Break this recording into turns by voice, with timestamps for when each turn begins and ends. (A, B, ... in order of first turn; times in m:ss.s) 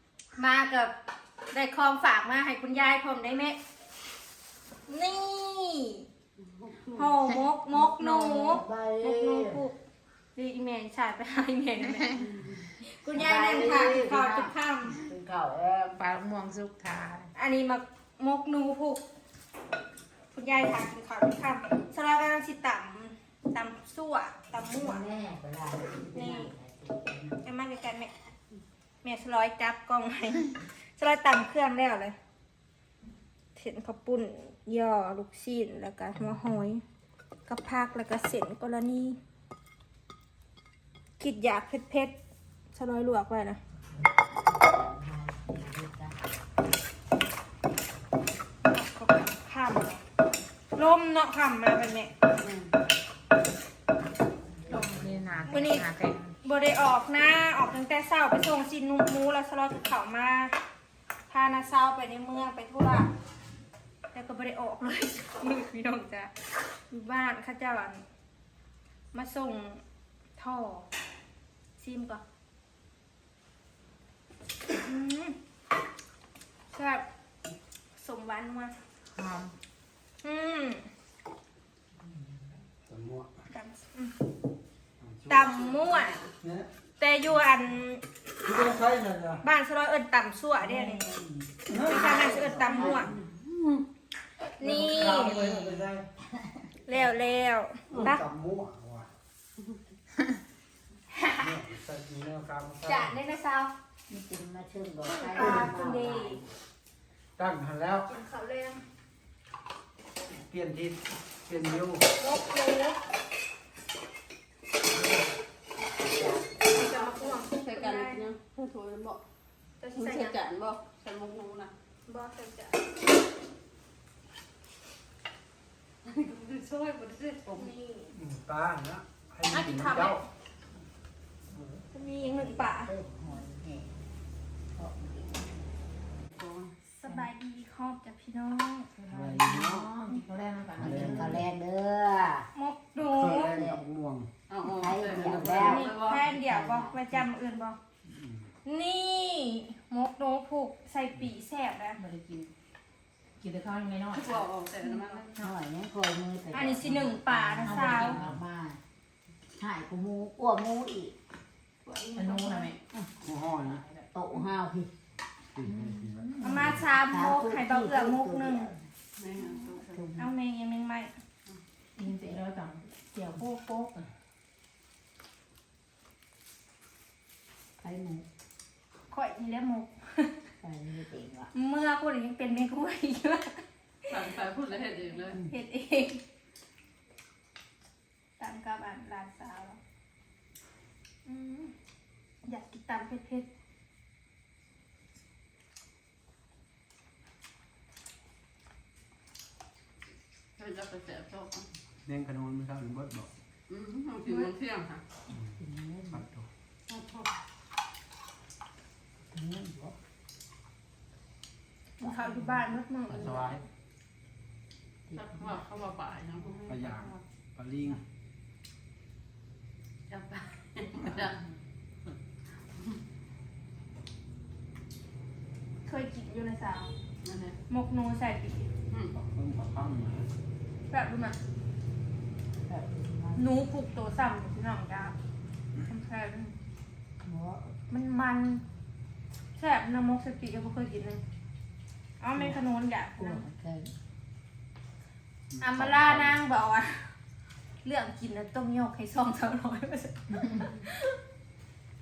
0:00.4-0:00.9 A
0:01.5-0:03.6 A
0:04.9-0:06.1 A
0:06.4-0:07.2 B
0:06.9-0:09.8 A
0:07.3-0:09.6 C
0:10.4-0:12.2 A
0:12.2-0:12.6 B
0:12.8-0:15.0 A
0:13.0-0:16.0 C
0:16.0-0:17.3 D
0:17.4-0:19.0 A
0:20.3-0:25.0 A
0:24.6-0:27.4 C
0:26.1-0:26.5 A
0:27.4-0:28.1 A
0:29.0-0:32.2 A
0:33.6-0:36.8 A
0:36.1-0:36.7 C
0:37.5-0:39.2 A
0:41.2-0:42.2 A
0:42.7-0:43.6 A
0:43.9-0:46.3 C
0:48.6-0:50.0 A
0:50.8-0:52.1 A
0:52.4-0:52.8 B
0:54.5-0:55.7 C
0:54.8-0:56.3 D
0:55.5-1:00.6 A
1:01.3-1:03.1 A
1:04.1-1:08.0 A
1:09.1-1:09.8 A
1:10.4-1:10.9 A
1:11.8-1:12.2 A
1:14.7-1:15.4 A
1:16.7-1:17.0 A
1:18.0-1:18.8 A
1:19.2-1:19.5 D
1:20.2-1:20.9 A
1:22.9-1:23.3 E
1:23.5-1:24.2 A
1:25.0-1:26.7 E
1:25.3-1:26.3 A
1:27.0-1:28.0 A
1:28.4-1:29.4 E
1:29.4-1:31.2 A
1:30.6-1:33.3 C
1:31.7-1:32.3 E
1:31.8-1:33.1 A
1:32.7-1:33.2 B
1:34.6-1:35.4 A
1:34.6-1:36.1 E
1:35.2-1:37.1 C
1:36.9-1:38.2 A
1:37.9-1:39.2 E
1:41.1-1:41.5 A
1:41.4-1:43.2 E
1:42.8-1:43.7 A
1:44.1-1:46.5 C
1:45.1-1:46.4 A
1:47.4-1:48.1 E
1:48.1-1:48.8 A
1:50.3-1:52.1 E
1:51.5-1:53.0 A
1:54.9-1:55.3 E
1:56.0-1:56.7 C
1:56.6-1:58.3 A
1:56.8-1:59.2 B
1:59.8-2:00.4 A
2:00.0-2:01.7 B
2:02.1-2:02.8 A
2:06.0-2:07.7 B
2:07.5-2:08.2 A
2:08.1-2:10.2 E
2:09.5-2:10.3 A
2:11.5-2:14.0 C
2:11.9-2:12.9 A
2:14.7-2:15.7 C
2:16.3-2:16.8 B
2:17.0-2:18.9 A
2:19.0-2:21.4 D
2:19.1-2:19.9 E
2:20.8-2:22.5 C
2:20.8-2:21.5 E
2:22.5-2:23.6 A
2:23.0-2:24.3 E
2:23.4-2:23.8 C
2:24.5-2:26.2 B
2:24.7-2:27.3 C
2:25.2-2:27.8 A
2:28.0-2:28.5 E
2:28.6-2:32.0 A
2:32.0-2:32.5 D
2:33.4-2:34.5 D
2:34.1-2:35.5 B
2:35.4-2:38.8 C
2:36.5-2:38.2 A
2:37.7-2:38.3 E
2:39.6-2:41.2 C
2:41.8-2:42.7 A
2:42.1-2:42.8 D
2:43.2-2:43.8 E
2:43.6-2:44.1 D
2:44.1-2:44.9 C
2:45.5-2:46.9 E
2:45.7-2:46.7 D
2:46.4-2:48.7 A
2:47.0-2:48.9 C
2:49.2-2:50.0 B
2:49.9-2:50.3 C
2:50.2-2:51.1 A
2:52.0-2:54.1 D
2:57.8-2:58.3 C
2:59.1-3:00.4 A
3:00.6-3:01.5 C
3:01.5-3:03.6 A
3:04.1-3:05.4 B
3:05.3-3:06.2 A
3:08.4-3:09.8 A
3:11.3-3:11.7 A
3:12.4-3:13.5 A
3:20.6-3:21.7 B
3:22.0-3:23.3 E
3:23.7-3:25.0 B
3:25.3-3:25.6 E
3:25.6-3:26.3 C
3:26.1-3:26.5 E
3:26.9-3:27.3 B
3:29.3-3:30.0 C
3:32.0-3:33.6 A
3:32.0-3:32.8 C
3:33.1-3:33.6 E
3:35.1-3:35.8 C
3:35.1-3:37.2 B
3:36.7-3:38.0 E
3:40.1-3:41.4 B
3:45.8-3:46.9 A
3:47.2-3:47.6 B
3:47.7-3:48.7 A
3:48.9-3:49.1 B
3:49.1-3:50.3 E
3:50.9-3:51.4 A
3:52.6-3:53.5 C
3:53.4-3:55.2 A
3:55.8-3:56.6 A
3:57.2-3:57.8 C
3:57.9-3:58.6 A
3:59.6-4:01.2 A
4:02.2-4:03.4 A
4:02.4-4:02.7 C
4:03.2-4:03.9 C
4:05.5-4:06.4 E
4:05.6-4:07.2 A
4:07.8-4:11.2 A